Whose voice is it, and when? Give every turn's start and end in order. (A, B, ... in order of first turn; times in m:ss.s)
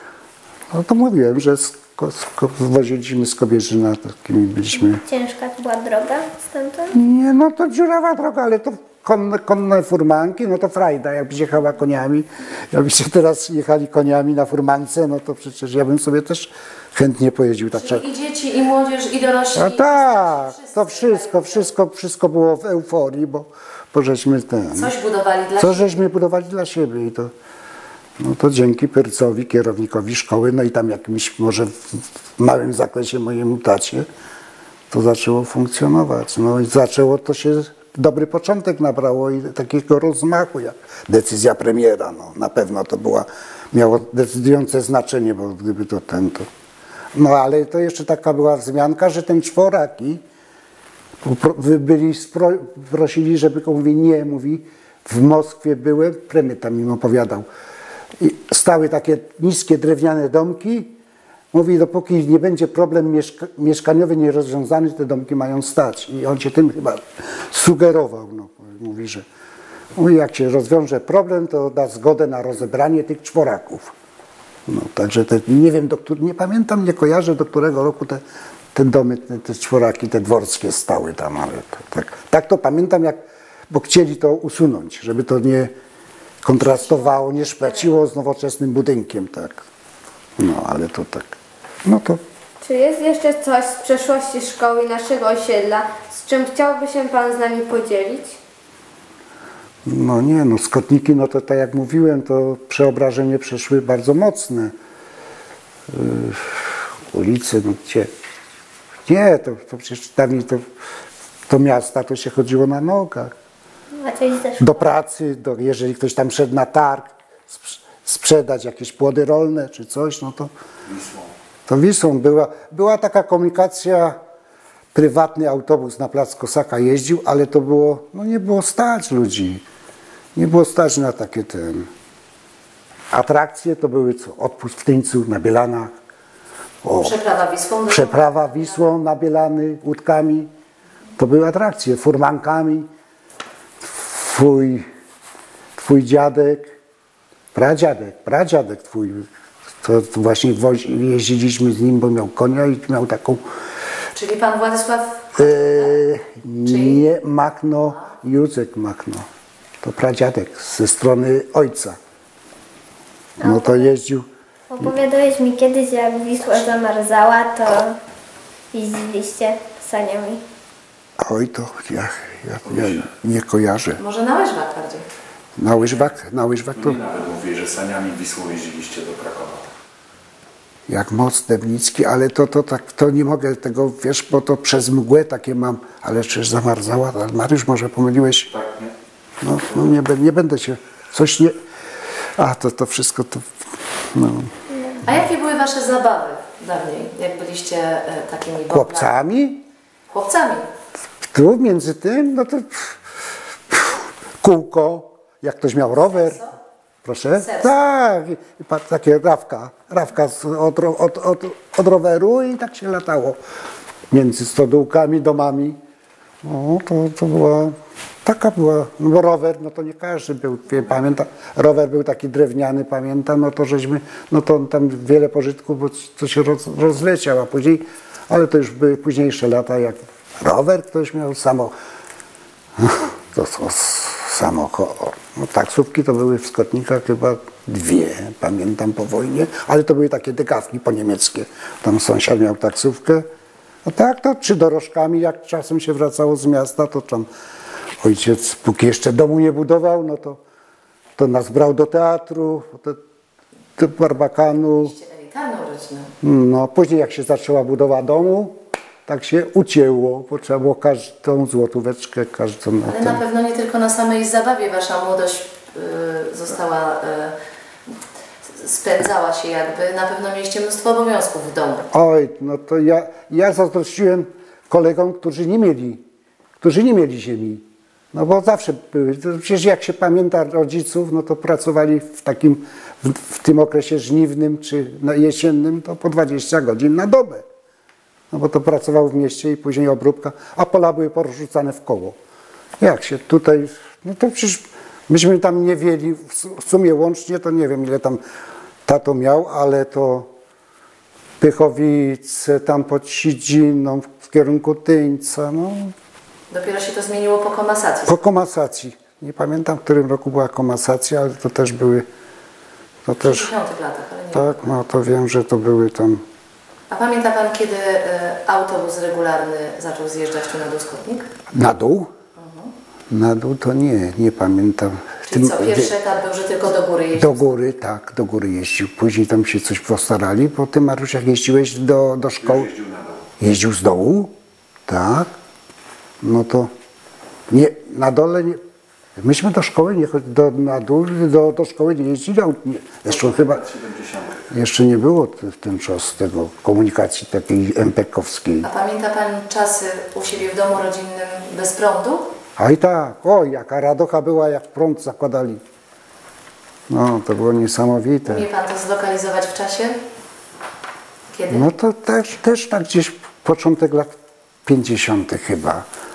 0:00.7-0:05.0 A
0:04.9-0:07.0 B
0:06.9-0:18.0 A
0:17.7-0:21.7 C
0:19.6-0:24.9 A
0:24.7-0:26.0 C
0:25.6-0:27.3 A
0:28.2-0:34.1 A
0:34.9-0:46.5 A
0:47.1-0:50.2 A
0:51.2-0:57.5 A
0:58.2-1:01.0 A
1:01.5-1:09.3 A
1:10.0-1:13.9 A
1:14.7-1:18.2 A
1:18.7-1:25.7 A
1:26.4-1:29.6 A
1:30.4-1:32.2 A
1:32.6-1:38.4 D
1:39.9-1:44.8 A
1:45.9-1:48.1 A
1:49.1-1:50.6 A
1:51.5-1:53.3 A
1:54.0-1:54.9 B
1:54.6-2:00.5 A
2:01.7-2:04.2 A
2:04.9-2:09.6 A
2:10.4-2:11.9 A
2:13.1-2:15.9 A
2:16.8-2:17.2 A
2:17.0-2:18.9 C
2:17.9-2:20.5 A
2:21.2-2:22.9 A
2:23.8-2:24.9 A
2:25.8-2:26.7 A
2:27.5-2:29.3 A
2:29.8-2:33.4 A
2:34.1-2:36.0 C
2:35.4-2:39.3 A
2:36.6-2:37.1 C
2:39.8-2:42.0 A
2:43.4-2:43.9 B
2:43.4-2:44.3 A
2:44.7-2:48.0 B
2:48.7-2:50.4 B
2:51.2-2:54.0 A
2:52.7-2:53.0 E
2:54.0-2:55.0 C
2:55.6-2:57.0 A
2:56.8-2:59.7 E
3:00.9-3:08.5 A
3:08.6-3:08.9 E
3:09.4-3:11.6 A
3:12.4-3:13.5 A
3:14.1-3:14.5 A
3:15.0-3:19.1 C
3:18.7-3:19.6 A
3:20.1-3:20.7 C
3:21.3-3:23.0 A
3:23.7-3:26.4 A
3:26.0-3:26.5 C
3:27.0-3:33.4 A
3:27.4-3:27.7 C
3:34.1-3:35.8 A
3:36.4-3:51.7 A
3:52.8-4:03.3 A
4:03.8-4:07.3 A
4:08.0-4:10.4 A
4:11.2-4:13.0 A
4:13.8-4:15.0 A
4:14.8-4:16.1 C
4:16.2-4:23.2 A
4:22.8-4:27.4 C
4:28.5-4:31.9 C
4:31.9-4:36.0 A
4:36.6-4:47.4 A
4:48.3-4:52.2 A
4:52.8-4:58.2 A
4:58.8-5:00.3 A
5:01.4-5:05.9 A
5:06.5-5:08.3 C
5:08.1-5:12.1 A
5:13.1-5:13.5 A
5:13.2-5:14.7 C
5:14.3-5:16.2 A
5:16.9-5:21.3 C
5:21.5-5:22.1 A
5:22.4-5:22.7 C
5:23.1-5:25.9 A
5:25.3-5:27.6 C
5:27.2-5:32.8 A
5:32.5-5:33.1 E
5:33.4-5:34.3 A
5:34.9-5:35.3 A
5:36.2-5:36.7 A
5:37.5-5:38.6 A
5:39.2-5:43.7 A
5:43.2-5:44.4 E
5:44.5-5:48.7 A
5:48.6-5:52.3 C
5:52.6-5:55.6 A
5:56.9-5:58.4 A
5:58.3-6:00.0 C
6:01.3-6:01.7 C
6:01.5-6:05.8 A